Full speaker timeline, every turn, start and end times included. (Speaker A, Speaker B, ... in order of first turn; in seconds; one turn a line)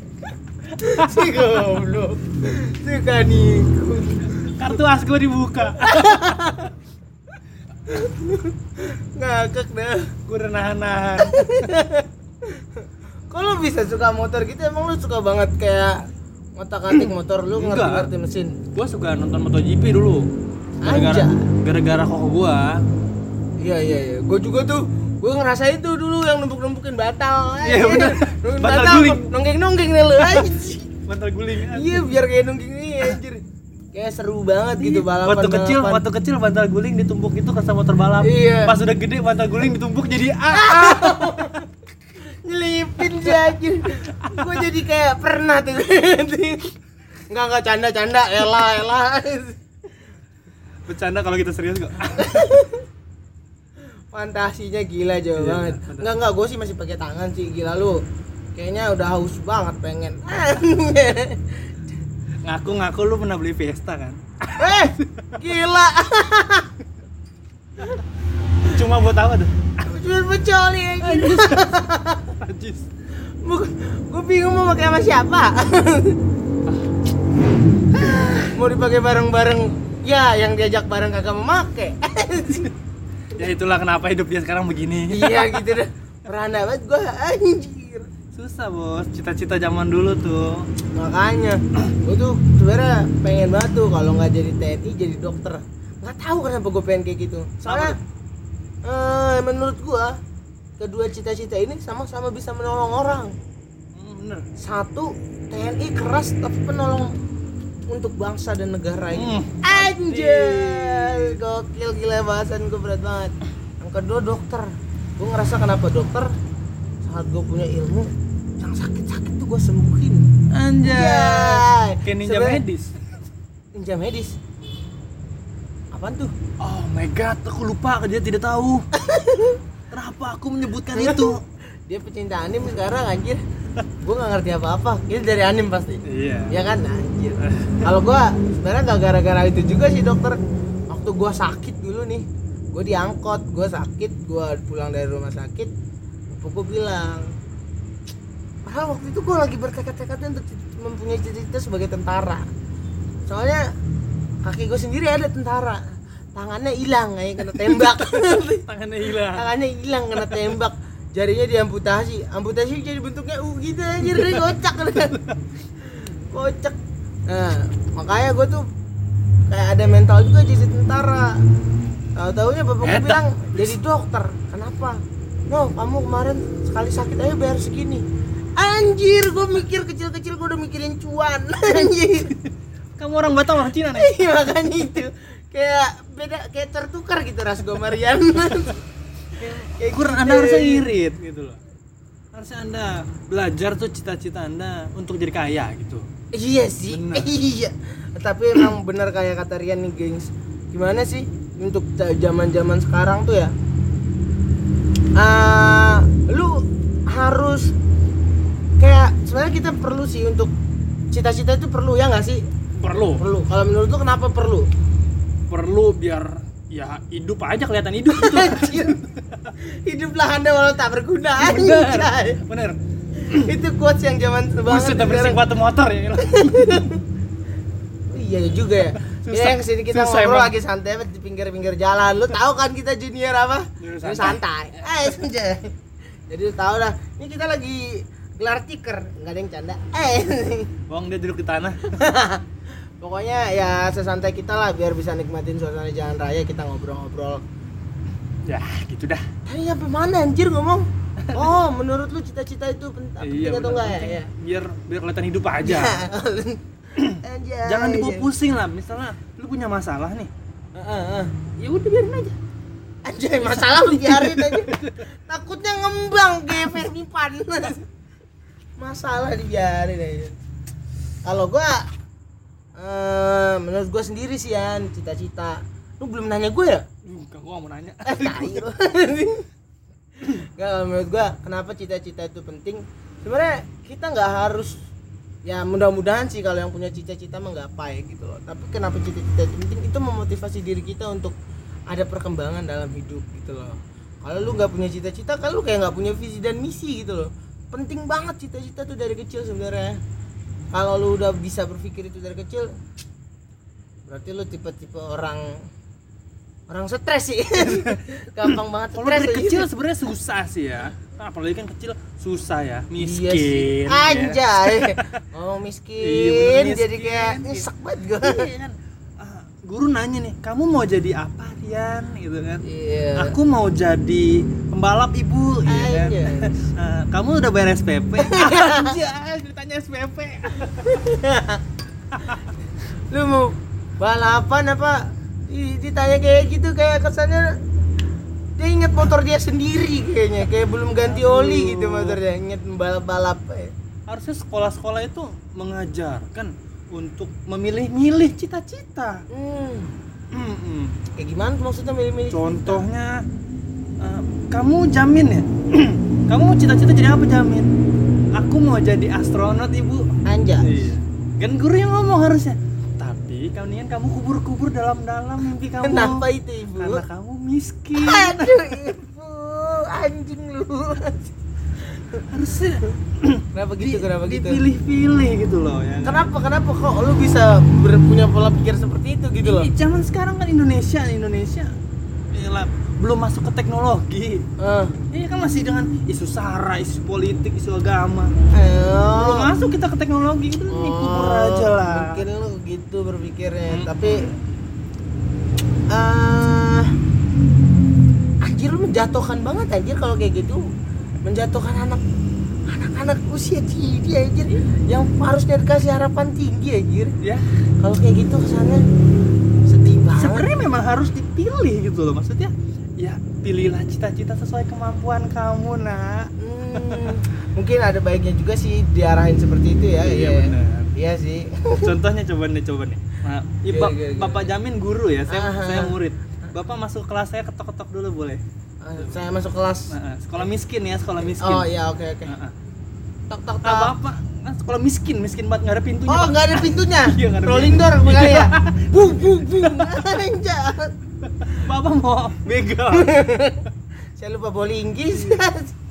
Speaker A: 0.7-4.8
Speaker B: 0.8-1.7
Speaker B: 4.5-6.5
Speaker A: 5.7-6.8
Speaker A: 7.9-10.1
Speaker B: 10.3-11.4
Speaker A: 11.2-16.1
Speaker A: 16.6-18.6
Speaker B: 16.9-18.1
Speaker B: 18.7-20.3
Speaker A: 20.8-21.5
Speaker B: 20.8-22.8
Speaker A: 23.6-30.9
Speaker B: 27.6-29.3
Speaker B: 30.2-30.6
Speaker B: 31.1-32.1
Speaker A: 31.6-33.4
Speaker A: 33.9-36.0
Speaker B: 34.8-41.4
Speaker A: 38.2-38.8
Speaker A: 40.5-41.7
Speaker A: 42.2-46.7
Speaker B: 43.1-43.6
Speaker B: 44.1-44.5
Speaker A: 47.3-49.6
Speaker B: 50.9-52.4
Speaker A: 52.1-52.9
Speaker A: 54.1-58.0
Speaker B: 55.4-56.1
Speaker A: 58.5-61.9
Speaker B: 62.4-65.4
Speaker A: 64.6-66.7
Speaker B: 68.6-70.0
Speaker A: 69.8-72.3
Speaker B: 71.0-71.8
Speaker B: 72.4-72.9
Speaker A: 73.4-76.2
Speaker B: 76.7-76.9
Speaker B: 78.0-78.5
Speaker A: 78.4-82.7
Speaker B: 83.3-85.7
Speaker A: 85.1-88.1
Speaker B: 88.3-90.7
Speaker A: 91.0-98.0
Speaker B: 97.6-98.0
Speaker A: 98.8-100.2
Speaker A: 100.8-103.4
Speaker B: 103.9-104.5
Speaker A: 104.6-107.2
Speaker A: 107.9-116.3
Speaker B: 109.1-111.4
Speaker A: 117.0-120.3
Speaker B: 120.5-123.0
Speaker A: 120.8-122.6
Speaker A: 123.8-124.4
Speaker A: 125.9-126.3
Speaker B: 126.6-128.9
Speaker A: 128.9-129.6
Speaker B: 129.9-131.4
Speaker A: 130.9-133.4
Speaker A: 134.0-140.4
Speaker B: 136.1-136.6
Speaker B: 137.4-137.9
Speaker A: 140.9-145.7
Speaker A: 146.3-147.3
Speaker A: 148.7-152.5
Speaker A: 153.3-153.6
Speaker A: 154.4-155.8
Speaker A: 156.3-165.2
Speaker B: 157.6-159.4
Speaker B: 164.1-164.4
Speaker B: 165.0-165.4
Speaker A: 165.8-166.8
Speaker A: 167.3-168.7
Speaker A: 169.5-171.4
Speaker A: 172.2-178.1
Speaker B: 172.8-173.7
Speaker A: 178.6-182.3
Speaker B: 182.3-184.1
Speaker A: 183.8-188.8
Speaker B: 189.4-191.6
Speaker A: 189.4-190.9
Speaker B: 192.3-196.1
Speaker A: 196.3-203.5
Speaker B: 196.9-197.3
Speaker A: 205.2-207.7
Speaker A: 208.8-210.5
Speaker A: 211.1-212.4
Speaker B: 212.8-213.2
Speaker A: 213.0-214.7
Speaker B: 215.5-219.5
Speaker A: 218.1-219.0
Speaker A: 219.6-222.4
Speaker B: 221.4-223.5
Speaker A: 223.2-225.4
Speaker B: 224.7-226.9
Speaker A: 226.2-227.0
Speaker A: 228.1-235.7
Speaker B: 229.0-230.5
Speaker B: 233.8-234.9
Speaker A: 236.3-240.7
Speaker B: 240.9-241.8
Speaker A: 241.8-242.5
Speaker A: 243.0-247.4
Speaker B: 248.4-249.3
Speaker A: 249.5-254.3
Speaker B: 251.2-251.6
Speaker B: 253.2-256.0
Speaker A: 255.6-258.3
Speaker B: 257.0-260.3
Speaker A: 260.8-261.4
Speaker B: 261.6-262.4
Speaker A: 263.1-267.9
Speaker B: 263.5-265.0
Speaker A: 268.8-270.3
Speaker A: 271.2-271.9
Speaker A: 272.8-276.9
Speaker B: 277.0-278.7
Speaker A: 278.1-279.5
Speaker A: 280.2-284.8
Speaker A: 285.4-291.4
Speaker A: 291.9-300.0
Speaker A: 300.7-302.7
Speaker A: 304.1-305.6
Speaker A: 306.7-309.7
Speaker B: 307.6-315.2
Speaker A: 313.0-318.5
Speaker B: 316.0-317.7
Speaker B: 318.2-322.6
Speaker A: 322.6-323.4
Speaker B: 323.2-331.0
Speaker A: 325.7-326.7
Speaker A: 328.2-329.0
Speaker A: 330.7-331.6
Speaker B: 332.1-332.5
Speaker A: 333.1-337.5
Speaker A: 338.6-343.7
Speaker B: 341.1-342.2
Speaker B: 344.1-349.2
Speaker A: 349.3-349.9
Speaker B: 350.3-351.0
Speaker A: 351.2-352.9
Speaker B: 352.3-353.2
Speaker B: 354.0-357.7
Speaker B: 358.3-368.9
Speaker A: 360.2-360.9
Speaker A: 365.8-367.1
Speaker A: 367.9-371.3
Speaker A: 371.9-372.3
Speaker B: 372.3-376.3
Speaker A: 373.5-374.6
Speaker A: 376.0-379.7
Speaker B: 379.4-381.7
Speaker B: 382.3-384.5
Speaker A: 384.6-385.0
Speaker B: 385.1-388.3
Speaker A: 388.5-389.5
Speaker B: 389.1-392.2
Speaker A: 390.7-394.3
Speaker B: 393.7-394.4
Speaker A: 395.9-396.9
Speaker A: 398.4-400.6
Speaker A: 401.2-402.0
Speaker A: 402.7-407.1
Speaker B: 407.2-407.5
Speaker A: 407.8-408.8
Speaker A: 409.7-410.5
Speaker B: 410.1-417.2
Speaker A: 416.4-421.9
Speaker B: 420.0-420.9
Speaker B: 421.8-428.4
Speaker A: 423.7-424.5
Speaker A: 425.3-426.5
Speaker A: 428.8-429.9
Speaker B: 429.9-431.7
Speaker A: 431.4-432.3
Speaker B: 432.3-432.6
Speaker A: 433.3-433.9
Speaker B: 433.6-439.9
Speaker A: 436.1-440.9
Speaker B: 441.5-443.2
Speaker A: 442.9-445.7
Speaker B: 445.1-445.4